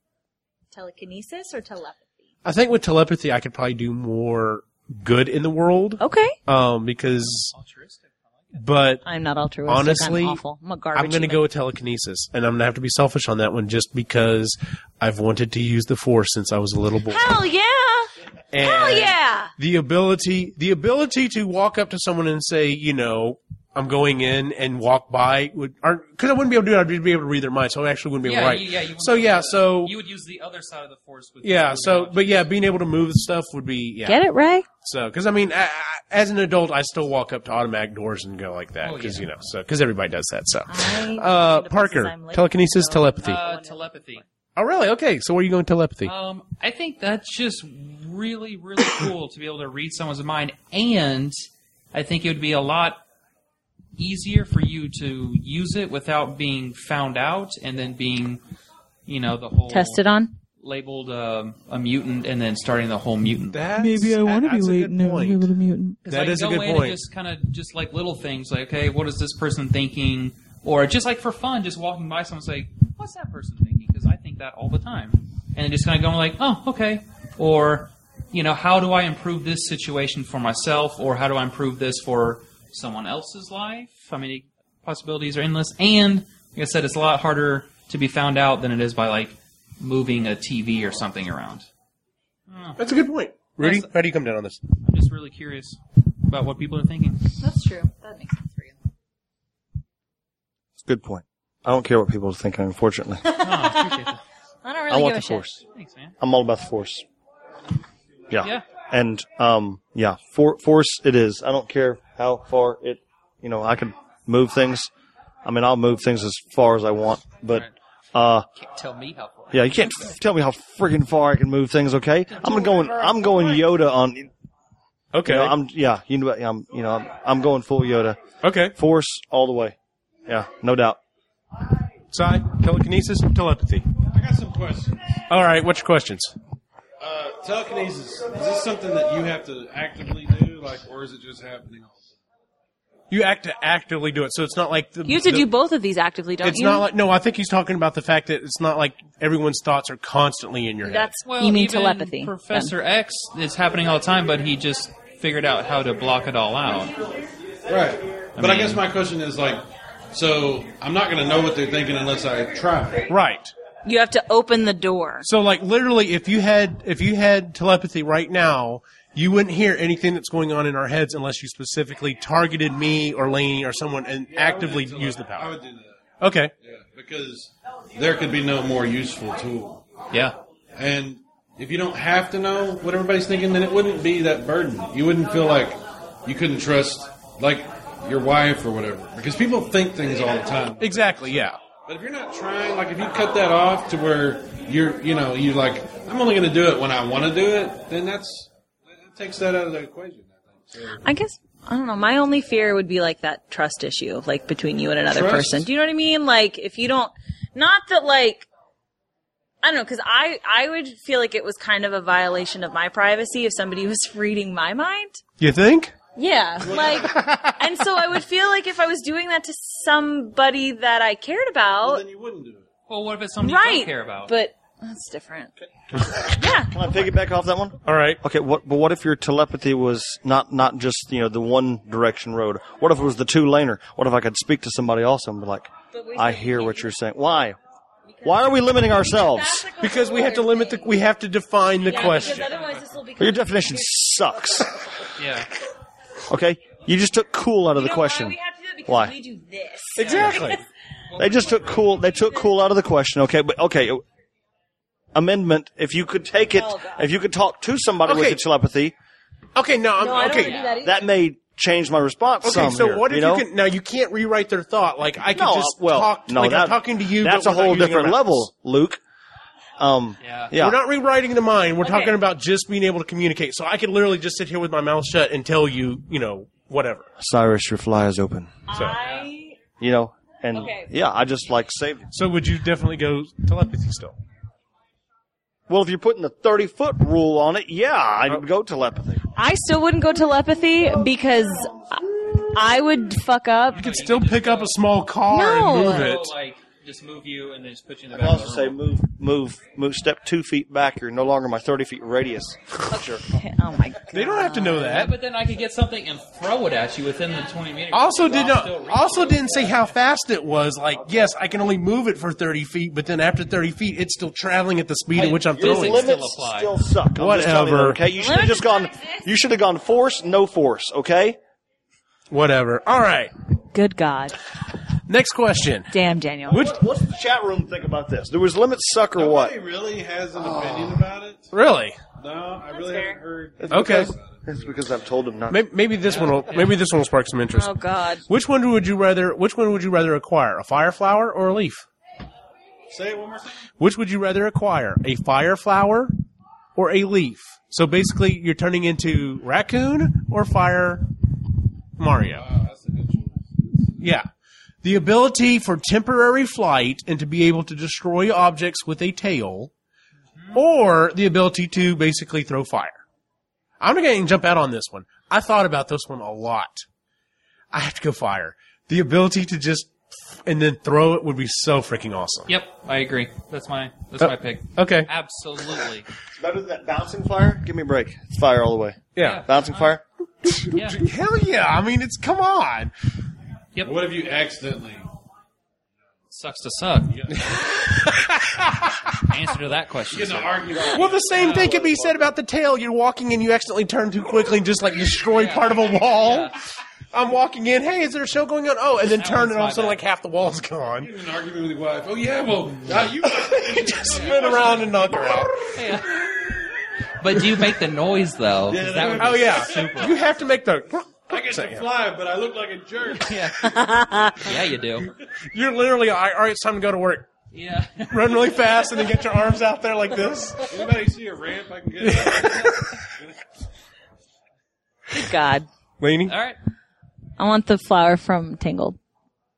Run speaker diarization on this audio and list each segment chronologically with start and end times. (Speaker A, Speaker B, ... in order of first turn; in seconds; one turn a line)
Speaker A: 0.7-2.2
Speaker B: 2.4-7.5
Speaker A: 6.0-6.3
Speaker C: 7.2-8.6
Speaker B: 8.5-9.0
Speaker A: 9.0-11.4
Speaker B: 9.7-10.4
Speaker B: 10.9-17.3
Speaker A: 17.1-19.5
Speaker B: 18.5-29.9
Speaker C: 28.2-32.5
Speaker B: 31.4-34.2
Speaker A: 34.0-34.6
Speaker B: 34.8-43.4
Speaker C: 38.8-39.3
Speaker A: 40.7-44.2
Speaker C: 43.2-44.2
Speaker B: 44.5-46.1
Speaker C: 46.0-53.0
Speaker C: 54.0-58.4
Speaker C: 59.0-60.0
Speaker A: 59.7-60.3
Speaker C: 60.6-63.7
Speaker B: 63.5-65.5
Speaker D: 63.7-66.0
Speaker C: 66.0-91.7
Speaker B: 66.0-67.0
Speaker C: 92.5-92.8
Speaker B: 92.8-94.6
Speaker C: 93.6-93.9
Speaker C: 94.8-97.2
Speaker A: 97.4-98.7
Speaker E: 100.8-103.3
Speaker A: 103.2-104.0
Speaker C: 103.3-104.2
Speaker A: 104.6-105.5
Speaker E: 104.9-105.6
Speaker C: 105.7-106.2
Speaker E: 106.2-107.0
Speaker E: 108.3-114.9
Speaker E: 115.4-118.5
Speaker C: 118.5-120.0
Speaker E: 119.5-124.3
Speaker C: 122.5-123.0
Speaker B: 125.1-125.6
Speaker E: 125.2-128.2
Speaker B: 128.4-128.8
Speaker E: 128.7-131.0
Speaker B: 132.1-133.9
Speaker F: 134.1-135.2
Speaker B: 135.3-136.3
Speaker F: 137.0-142.1
Speaker B: 143.1-145.5
Speaker A: 145.1-146.9
Speaker B: 146.4-151.1
Speaker A: 150.8-152.7
Speaker C: 151.2-157.0
Speaker F: 157.7-163.1
Speaker C: 158.4-158.8
Speaker B: 163.1-163.5
Speaker A: 163.8-165.3
Speaker B: 165.2-175.6
Speaker F: 174.3-176.0
Speaker B: 176.2-176.5
Speaker F: 176.6-179.8
Speaker C: 180.1-180.4
Speaker F: 180.7-191.3
Speaker B: 190.8-191.6
Speaker F: 191.8-201.0
Speaker A: 201.0-208.5
Speaker F: 205.1-205.7
Speaker A: 209.6-215.2
Speaker B: 215.4-215.9
Speaker A: 216.2-222.0
Speaker F: 216.6-217.3
Speaker F: 221.8-222.7
Speaker C: 222.9-224.3
Speaker A: 223.4-225.5
Speaker E: 225.9-237.6
Speaker A: 226.3-227.1
Speaker B: 227.8-228.2
Speaker A: 235.9-236.9
Speaker A: 238.1-240.9
Speaker E: 238.2-239.7
Speaker B: 239.8-242.5
Speaker A: 241.8-244.7
Speaker C: 242.3-242.7
Speaker E: 243.2-244.7
Speaker C: 245.2-245.5
Speaker E: 246.3-248.3
Speaker A: 247.8-250.7
Speaker E: 248.9-249.1
Speaker B: 250.0-250.6
Speaker C: 250.0-250.3
Speaker C: 251.1-251.9
Speaker E: 251.2-254.0
Speaker A: 251.6-252.5
Speaker E: 255.1-258.9
Speaker A: 256.5-257.1
Speaker B: 258.0-258.4
Speaker B: 259.5-260.6
Speaker A: 260.0-261.1
Speaker C: 260.4-260.7
Speaker E: 260.8-263.4
Speaker B: 262.4-268.5
Speaker E: 265.3-269.0
Speaker E: 269.8-270.8
Speaker C: 270.2-270.5
Speaker B: 270.5-277.1
Speaker A: 271.8-272.2
Speaker E: 277.2-278.6
Speaker A: 278.7-279.6
Speaker B: 278.7-279.0
Speaker E: 279.8-282.1
Speaker A: 280.5-280.9
Speaker B: 282.1-284.2
Speaker E: 285.7-289.2
Speaker A: 289.3-293.9
Speaker C: 293.7-294.8
Speaker B: 293.7-296.3
Speaker A: 295.3-296.1
Speaker C: 295.8-298.8
Speaker E: 298.1-303.2
Speaker A: 302.9-305.1
Speaker B: 304.1-305.1
Speaker C: 304.8-309.8
Speaker B: 307.9-316.1
Speaker E: 315.1-321.4
Speaker C: 315.2-316.9
Speaker B: 317.1-318.0
Speaker A: 318.1-319.3
Speaker B: 322.3-323.3
Speaker A: 323.7-324.4
Speaker B: 325.1-325.9
Speaker A: 325.9-326.7
Speaker E: 326.5-329.5
Speaker B: 326.5-326.8
Speaker F: 329.1-331.5
Speaker E: 330.4-330.9
Speaker B: 331.5-332.0
Speaker F: 332.2-335.0
Speaker A: 332.7-333.2
Speaker E: 333.6-335.6
Speaker B: 333.7-334.1
Speaker B: 335.5-337.8
Speaker C: 336.1-336.8
Speaker A: 337.5-338.2
Speaker B: 338.3-341.8
Speaker F: 342.9-343.7
Speaker B: 343.8-346.1
Speaker B: 346.7-351.1
Speaker B: 352.0-352.4
Speaker F: 352.3-354.0
Speaker B: 354.0-354.3
Speaker B: 354.8-359.7
Speaker B: 360.5-363.0
Speaker B: 363.8-366.9
Speaker B: 367.7-369.9
Speaker B: 370.4-372.5
Speaker C: 372.5-376.1
Speaker B: 374.2-375.1
Speaker E: 376.4-380.0
Speaker B: 379.1-379.5
Speaker C: 379.2-379.9
Speaker B: 380.4-382.9
Speaker C: 380.7-381.0
Speaker F: 383.8-385.1
Speaker C: 386.3-387.2
Speaker F: 387.1-387.6
Speaker B: 387.4-388.9
Speaker C: 389.2-391.8
Speaker F: 390.1-391.6
Speaker B: 390.9-396.5
Speaker E: 391.5-392.2
Speaker C: 395.3-396.5
Speaker B: 397.1-401.1
Speaker C: 399.1-400.0
Speaker F: 401.0-405.1
Speaker B: 403.3-405.7
Speaker C: 405.7-406.5
Speaker C: 407.2-410.2
Speaker F: 408.7-410.1
Speaker B: 409.1-411.8
Speaker F: 411.3-413.5
Speaker C: 413.2-415.1
Speaker A: 413.6-414.5
Speaker B: 415.5-417.3
Speaker C: 417.5-419.1
Speaker B: 418.1-420.7
Speaker F: 420.6-423.5
Speaker B: 422.0-422.7
Speaker A: 425.1-425.7
Speaker B: 426.0-426.4
Speaker C: 426.3-426.6
Speaker A: 427.4-429.0